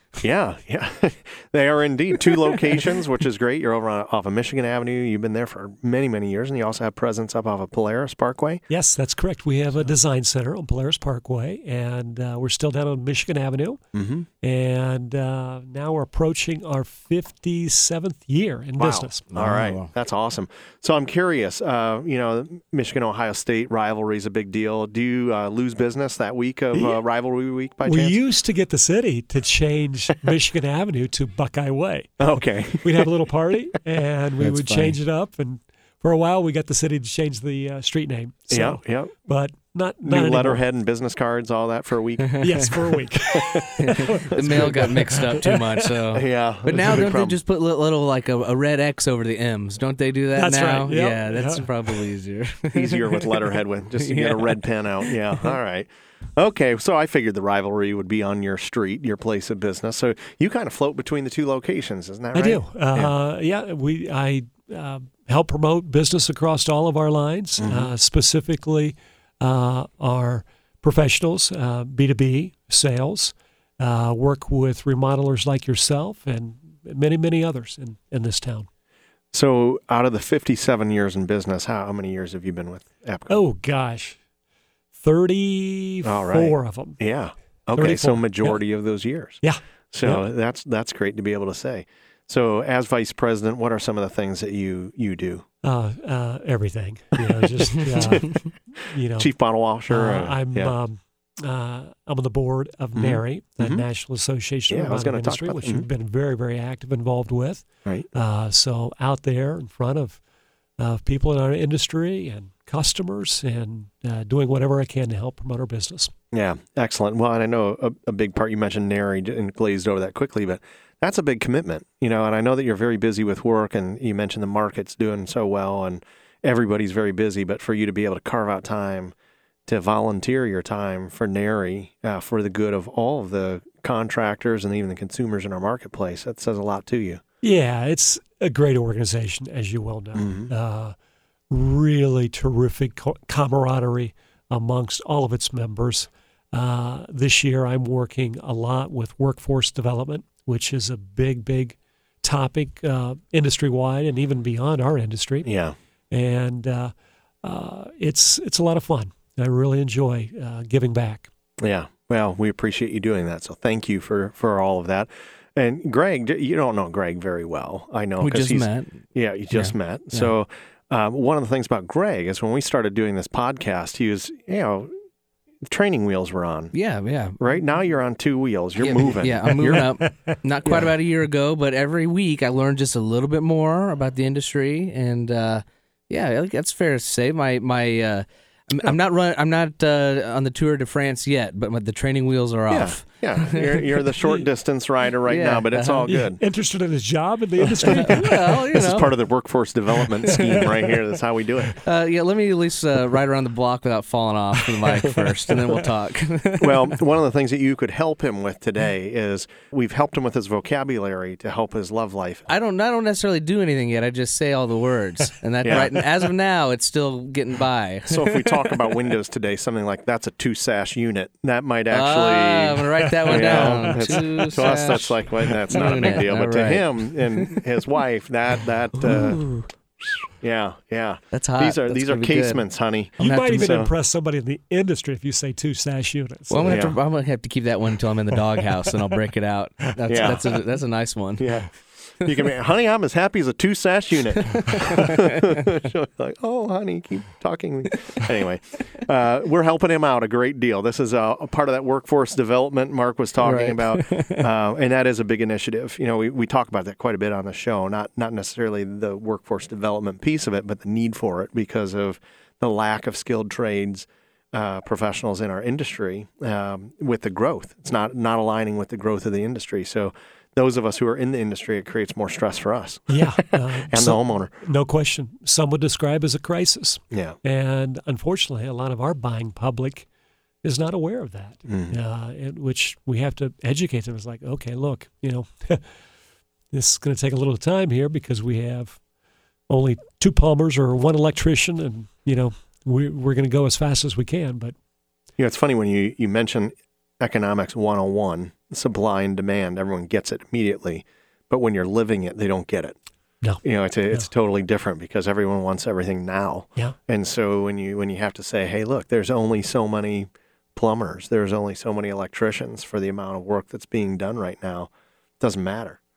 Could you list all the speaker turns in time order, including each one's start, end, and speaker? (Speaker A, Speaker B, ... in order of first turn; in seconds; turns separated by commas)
Speaker A: 0.2-8.6, Speaker B: 8.7-13.8, Speaker A: 13.9-14.3, Speaker B: 14.4-19.2, Speaker A: 18.8-28.2, Speaker C: 19.3-19.9, Speaker B: 27.9-32.2, Speaker A: 32.2-33.1, Speaker B: 32.8-40.6, Speaker C: 34.4-35.0, Speaker A: 38.5-39.1, Speaker A: 40.0-42.7, Speaker C: 42.2-42.6, Speaker B: 42.4-45.4, Speaker A: 43.3-45.6, Speaker C: 43.8-55.1, Speaker A: 46.1-47.4, Speaker B: 50.4-52.0, Speaker A: 52.7-63.1, Speaker B: 62.3-78.7, Speaker A: 67.6-67.9, Speaker A: 79.3-83.4, Speaker B: 83.3-84.2, Speaker B: 84.9-87.0, Speaker A: 86.0-95.5, Speaker B: 87.8-88.6, Speaker B: 89.4-90.2, Speaker B: 95.6-99.3, Speaker A: 97.6-98.3, Speaker A: 99.2-100.7, Speaker B: 99.9-110.2, Speaker A: 103.0-103.8, Speaker A: 104.7-105.9, Speaker B: 110.8-116.1, Speaker A: 116.3-129.1, Speaker A: 129.7-137.2, Speaker B: 137.4-140.9, Speaker A: 140.2-140.5, Speaker B: 141.5-155.5, Speaker A: 155.4-155.8, Speaker B: 156.1-156.9, Speaker B: 157.4-161.3, Speaker A: 161.6-174.9, Speaker C: 168.2-170.3, Speaker A: 175.6-176.7, Speaker C: 176.7-177.4, Speaker A: 177.4-179.9, Speaker C: 178.8-194.4, Speaker B: 179.7-180.4, Speaker A: 180.7-180.9, Speaker A: 192.7-196.4, Speaker C: 195.2-196.2, Speaker B: 196.1-198.6, Speaker A: 197.6-201.8, Speaker C: 197.8-199.2, Speaker C: 200.1-200.9, Speaker C: 201.8-207.0, Speaker A: 206.6-212.5, Speaker C: 212.5-218.8, Speaker A: 215.7-216.0, Speaker A: 218.1-229.4, Speaker C: 221.9-227.6, Speaker B: 223.1-225.0, Speaker C: 228.9-229.7, Speaker A: 230.4-233.9, Speaker C: 231.3-232.6, Speaker C: 233.2-233.7, Speaker B: 233.2-236.8, Speaker C: 236.5-241.6, Speaker A: 236.7-237.0, Speaker A: 240.1-240.5, Speaker A: 241.4-274.5, Speaker C: 244.5-245.4, Speaker C: 253.4-254.5, Speaker B: 273.1-280.1, Speaker A: 277.1-277.4, Speaker B: 280.6-285.9, Speaker A: 281.7-282.0, Speaker B: 286.7-289.0, Speaker B: 289.7-294.8, Speaker A: 295.4-303.0, Speaker B: 303.4-304.3, Speaker A: 303.6-316.0